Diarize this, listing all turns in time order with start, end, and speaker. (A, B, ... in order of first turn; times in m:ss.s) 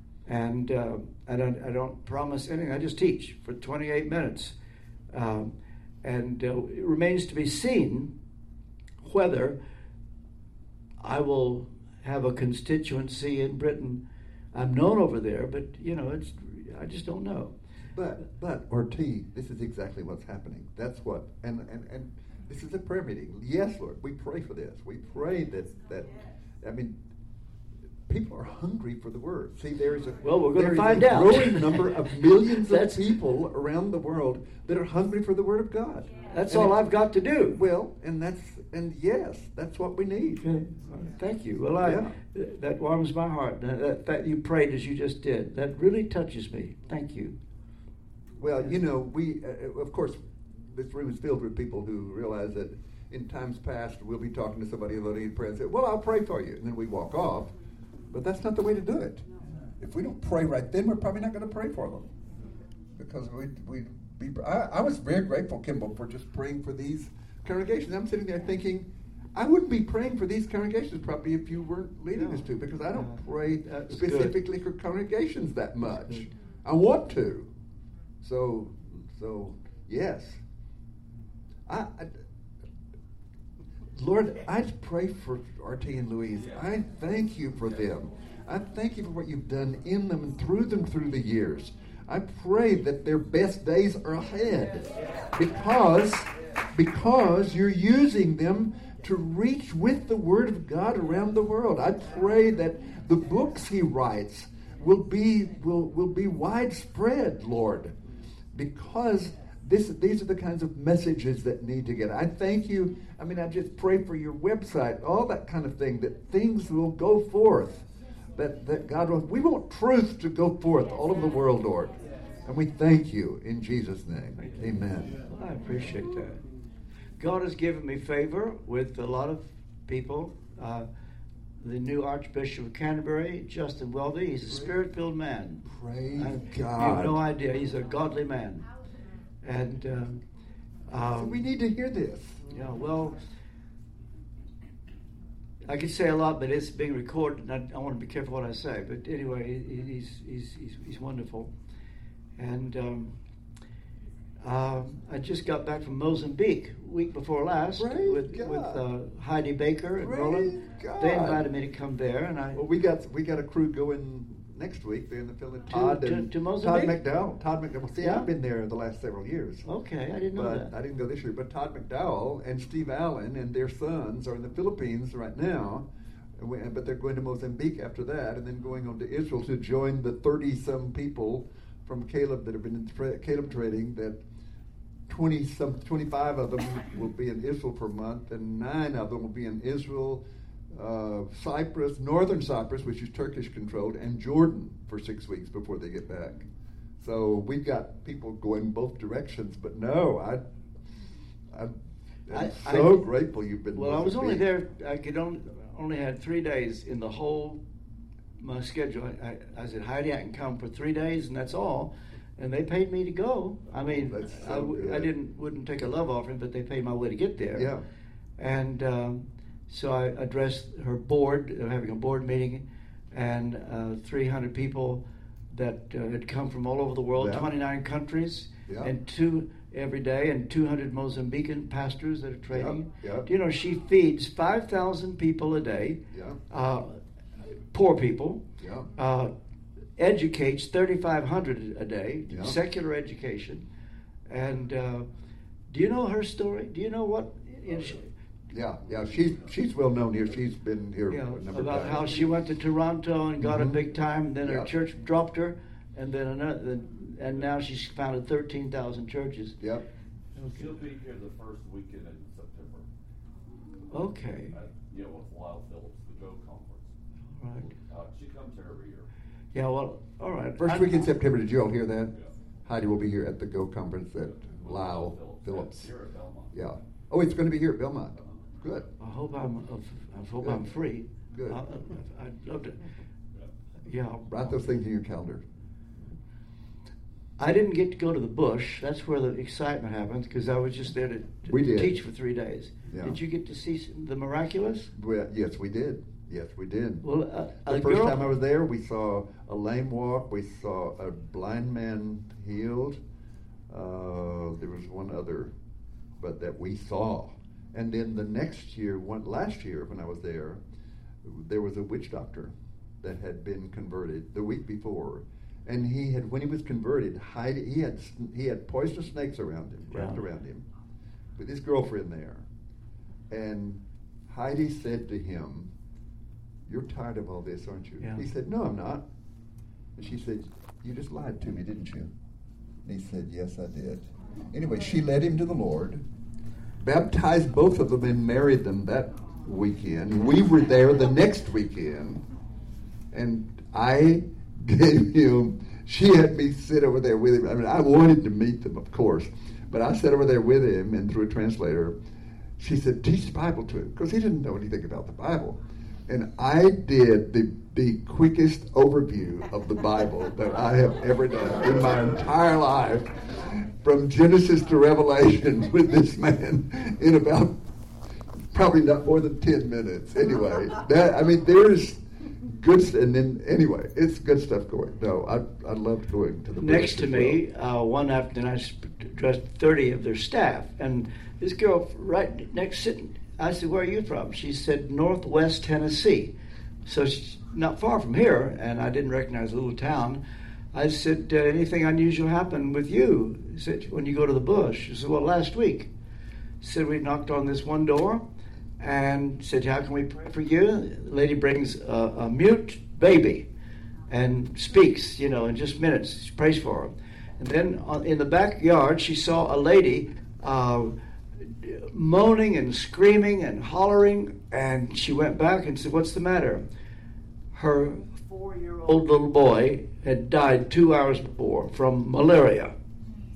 0:00.3-0:04.6 A
0:05.1-0:08.1 A
0:09.0-0:09.6 A
0:11.0-0:14.0 A
0:14.5-0:17.5 A
0:17.9-0:27.0 B
0:28.1-0:36.8 B
0:30.2-0:33.1 A
0:36.3-0:37.6 A
0:37.5-0:40.4 B
0:40.4-0:47.4 A
0:41.8-0:42.1 B
0:48.4-0:57.5 B
0:58.1-0:59.3 B
0:59.8-1:02.1 B
1:03.0-1:17.5 B
1:12.1-1:14.4 A
1:18.2-1:20.4 B
1:21.7-1:22.2 B
1:23.9-1:48.0 B
1:48.5-1:57.8 B
1:58.4-2:05.3 B
2:05.2-2:06.4 A
2:07.2-2:10.9 A
2:11.6-2:18.7 A
2:15.7-2:17.2 B
2:19.4-2:20.2 A
2:20.9-2:21.4 A
2:21.0-2:22.5 B
2:22.5-2:23.2 A
2:25.6-2:31.5 A
2:32.4-2:33.2 A
2:34.4-2:42.6 A
2:37.8-2:38.8 B
2:40.0-2:41.5 B
2:42.5-2:49.7 B
2:45.7-2:47.0 A
2:48.0-2:48.3 A
2:49.7-2:50.7 A
2:50.3-2:55.8 B
2:56.4-3:04.2 B
3:05.1-3:16.5 B
3:17.0-3:20.4 B
3:21.5-3:21.8 B
3:22.3-3:24.4 B
3:22.3-3:23.1 A
3:23.7-3:27.6 A
3:28.4-3:37.7 A
3:33.9-3:35.1 B
3:37.6-3:37.8 B
3:38.4-3:57.0 A
3:47.2-3:47.5 B
3:52.5-3:53.3 B
3:56.1-3:56.4 B
3:57.7-3:58.4 A
3:58.6-3:58.9 B
3:59.0-3:59.3 A
4:00.0-4:03.6 A
4:02.3-4:02.6 B
4:04.3-4:05.1 A
4:05.7-4:08.1 A
4:08.5-4:12.2 B
4:11.1-4:19.6 A
4:13.4-4:13.8 B
4:19.6-4:19.8 B
4:20.4-4:20.7 A
4:20.5-4:22.9 C
4:23.9-4:24.6 A
4:24.5-4:26.9 C
4:27.4-4:27.7 A
4:27.6-4:29.1 C
4:29.5-4:31.1 A
4:30.6-4:32.1 B
4:32.7-4:35.9 B
4:34.2-4:36.5 C
4:36.5-4:38.9 B
4:39.0-4:42.8 A
4:41.3-4:41.6 B
4:43.9-4:44.5 A
4:44.3-4:45.4 B
4:47.4-4:54.9 A
4:51.5-4:52.0 B
4:52.9-4:53.2 B
4:54.9-4:57.0 B
4:57.0-4:58.2 A
4:57.7-5:03.0 B
5:03.7-5:05.5 B
5:06.2-5:10.6 B
5:11.2-5:20.7 B
5:19.9-5:20.2 A
5:21.4-5:22.5 B
5:23.3-5:25.7 B
5:26.7-5:29.0 B
5:30.0-5:32.1 B
5:32.8-5:36.0 B
5:36.8-5:42.2 B
5:43.1-5:52.0 B
5:52.6-6:07.6 B
6:08.5-6:17.4 B
6:16.6-6:26.3 A
6:26.9-6:30.2 A
6:30.7-6:35.9 A
6:36.6-6:38.2 A
6:38.8-6:43.5 A
6:44.1-6:50.9 A
6:51.6-6:56.6 A
6:57.5-7:02.7 A